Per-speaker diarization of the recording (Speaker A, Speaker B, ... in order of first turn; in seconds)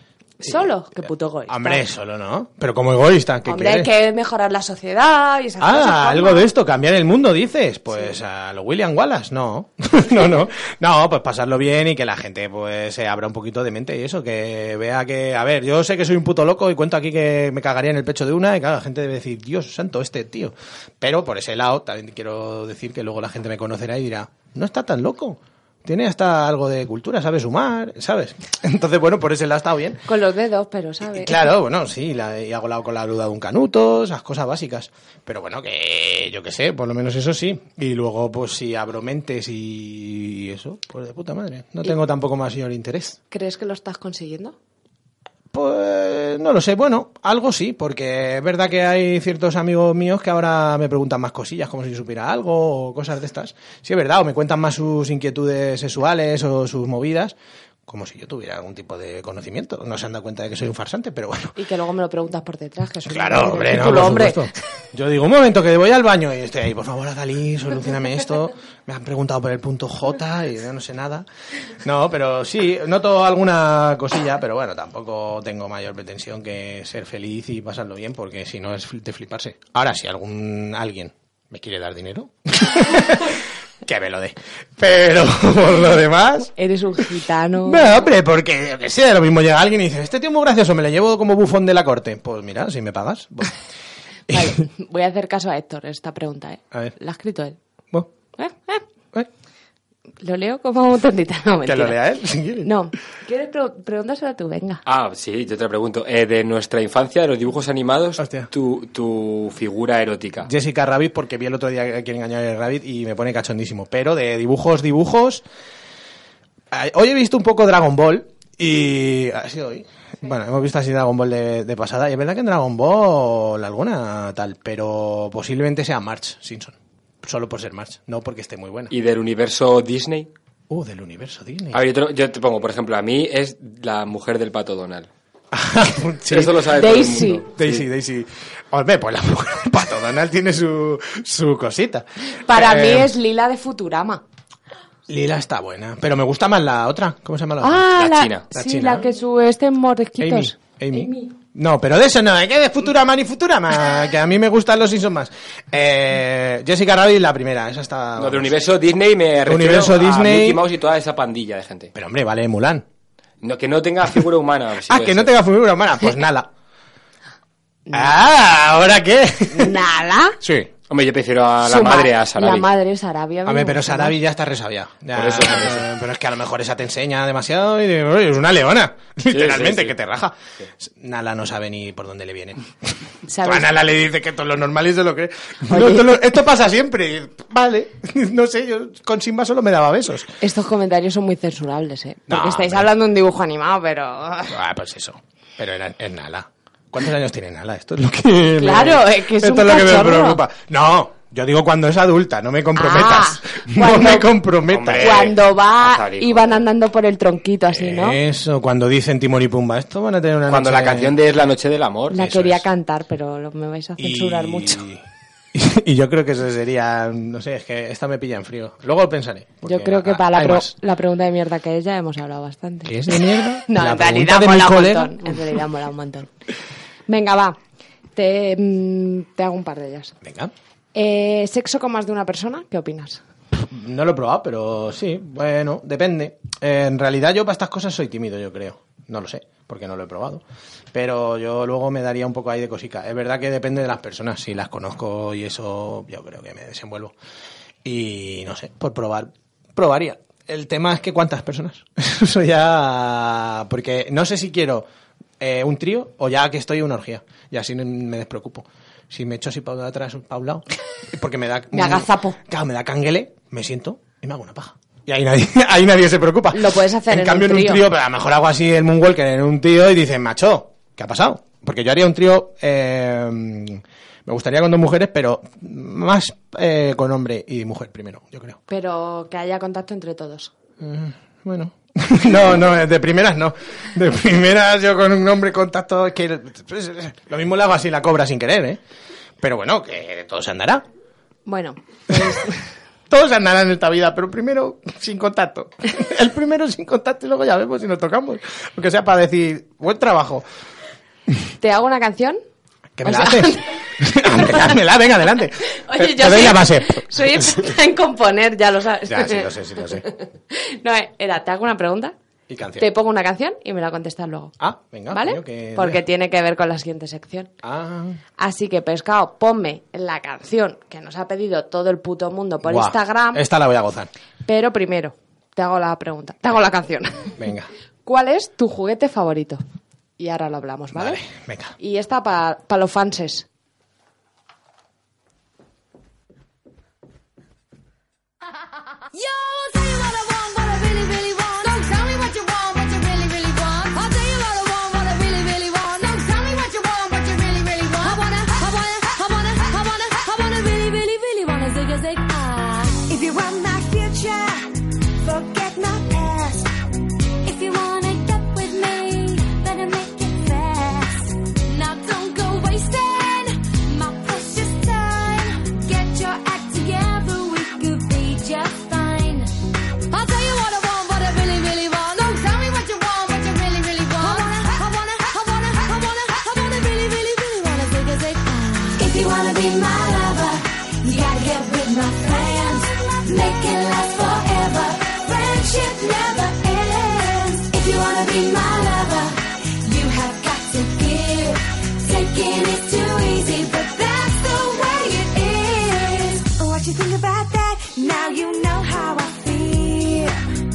Speaker A: 0.4-1.9, 3.5-6.5, 30.1-31.5, 43.3-44.6, 61.6-64.5, 86.5-88.1, 94.3-97.6, 98.4-98.8, 100.2-102.0, 102.6-104.8, 136.8-137.5, 142.4-144.2, 147.6-151.3, 169.5-170.4, 171.6-174.2, 183.3-183.7, 185.7-186.2, 190.4-194.6, 198.6-200.4, 202.8-204.3, 205.0-208.2, 212.1-214.8, 219.6-226.3, 227.1-227.6, 228.2-230.2, 230.9-233.2, 261.7-262.4, 266.5-267.8, 278.7-280.5, 291.5-292.7, 301.6-302.4, 303.0-304.7, 305.8-312.1, 312.8-314.5, 315.1-317.5, 318.4-323.4, 324.5-327.4, 328.1-329.6, 330.2-331.2, 331.8-333.5
Speaker B: 1.5-3.9, 5.6-30.1, 31.1-43.2, 45.5-57.4, 57.9-61.6, 63.1-71.3, 71.8-86.5, 87.6-93.6, 94.3-94.6, 101.7-102.7, 108.2-108.5, 110.4-115.4, 116.7-128.9, 130.7-131.8, 135.5-136.7, 137.5-143.1, 145.1-149.1, 150.2-158.5, 159.4-160.6, 161.9-162.8, 164.9-166.5, 167.9-169.8, 170.4-170.7, 173.5-190.4, 192.3-192.9, 194.5-205.3, 207.7-211.1, 212.1-212.7, 214.0-220.7, 222.8-225.4, 230.2-230.5, 233.6-247.1, 247.8-254.9, 255.4-278.6, 280.8-288.8, 289.4-290.9, 292.1-292.4, 293.1-300.4, 303.0-307.7, 309.1-310.1, 312.5-312.9, 314.6-316.0, 317.6-318.2, 322.6-324.1, 327.4-327.7, 330.9-331.8
Speaker C: 104.9-110.5, 128.9-130.3, 131.7-135.1, 136.3-137.8, 148.0-148.4, 158.2-161.9, 163.4-165.3, 170.9-172.7, 175.2-175.9, 179.3-179.9, 204.7-206.7, 210.5-212.2
Speaker D: 339.1-356.7, 357.4-369.5, 370.1-400.3